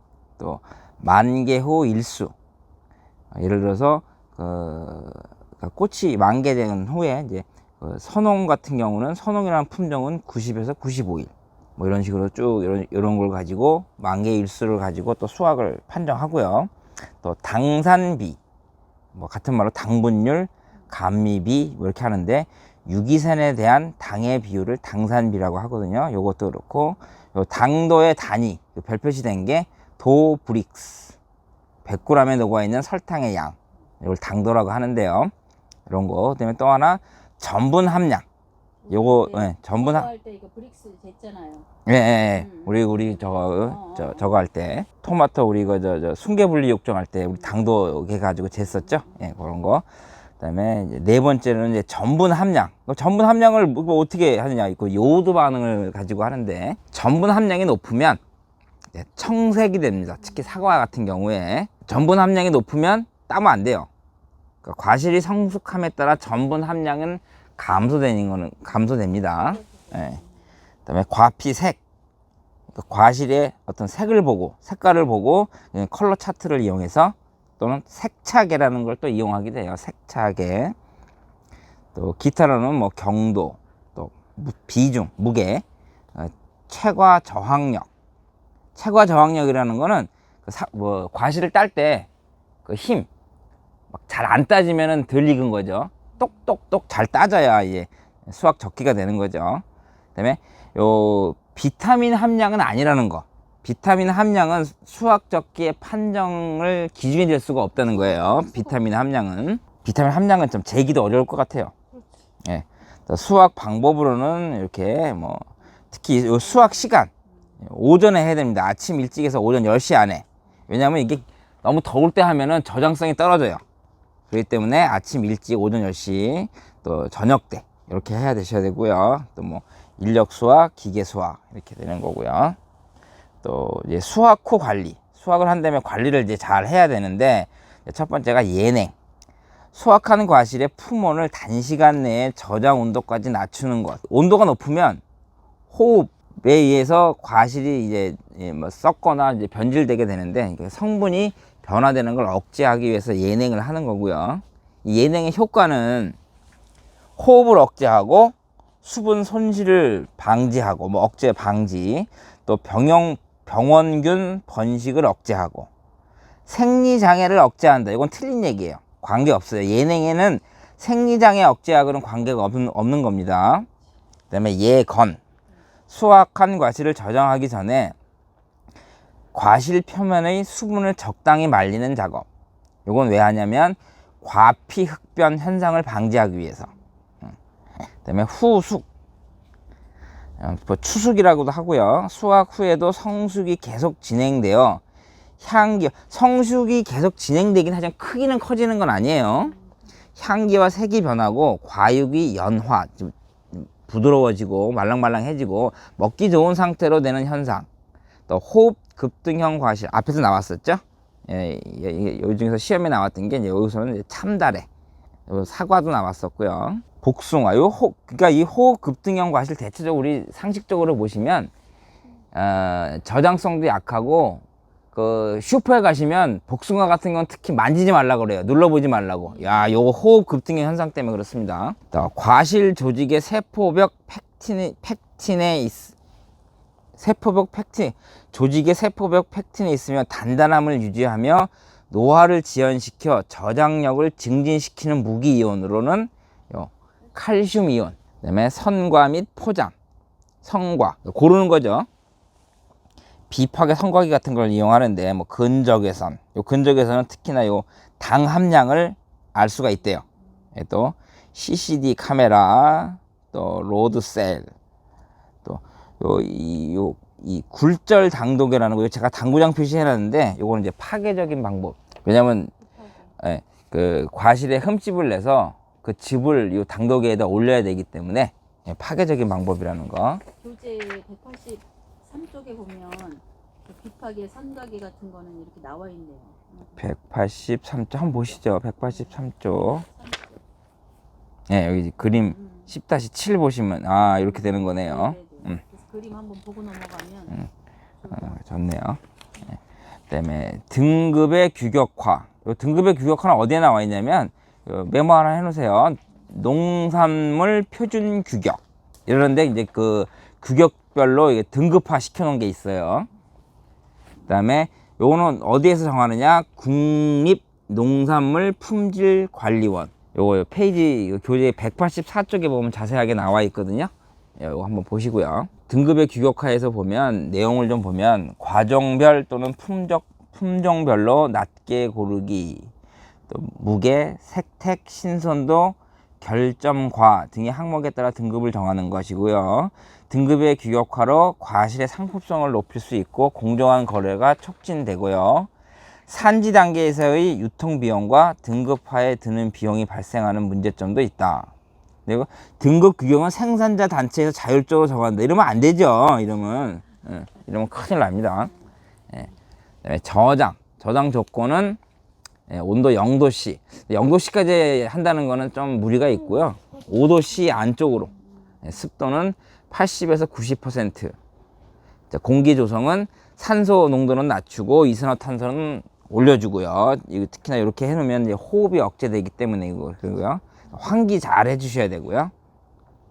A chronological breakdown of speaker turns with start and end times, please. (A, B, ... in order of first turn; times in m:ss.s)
0:00.4-0:02.3 A
0:03.3-0:18.4 A
0:19.1-0:31.2 A
0:31.8-0:35.3 A
0:35.9-0:38.2 A
0:38.8-0:41.7 B
0:38.9-0:40.1 A
0:41.9-0:49.9 A
0:42.4-0:44.3 B
0:48.8-0:49.2 B
0:50.4-0:58.2 A
0:58.9-1:03.9 A
1:04.6-1:10.2 A
1:09.4-1:10.3 B
1:10.9-1:11.8 A
1:12.7-1:20.8 A
1:21.9-1:27.9 A
1:28.8-1:32.1 A
1:32.6-1:33.1 A
1:33.9-1:39.6 A
1:40.2-1:51.7 A
1:47.9-1:48.8 B
1:52.4-1:57.1 A
1:57.6-2:03.6 A
2:04.3-2:12.6 A
2:13.4-2:18.9 A
2:19.7-2:25.0 A
2:25.7-2:36.2 A
2:37.2-2:45.7 A
2:46.5-2:53.7 A
2:54.3-2:55.2 A
2:55.9-2:58.0 A
2:59.3-3:02.3 A
3:02.9-3:06.7 A
3:08.0-3:08.9 A
3:10.4-3:14.8 A
3:15.4-3:19.5 A
3:20.2-3:27.7 A
3:28.3-3:34.7 A
3:35.3-3:41.5 A
3:42.3-3:55.9 A
3:49.4-3:49.7 B
3:57.0-4:09.7 A
4:10.4-4:11.9 A
4:13.3-4:24.5 A
4:25.4-4:32.5 A
4:32.6-4:33.1 B
4:33.2-4:40.2 A
4:40.4-4:46.7 B
4:46.8-4:49.9 A
4:49.8-4:50.4 B
4:51.5-4:55.6 A
4:52.1-4:52.7 B
4:54.1-4:57.4 B
4:58.0-4:58.4 B
4:58.1-4:59.0 A
5:00.1-5:13.1 A
5:14.3-5:32.7 A
5:33.3-5:45.5 A
5:46.1-5:51.5 A
5:52.1-5:58.5 A
5:59.8-6:01.8 A
6:02.5-6:08.1 A
6:08.6-6:11.1 A
6:12.1-6:22.3 A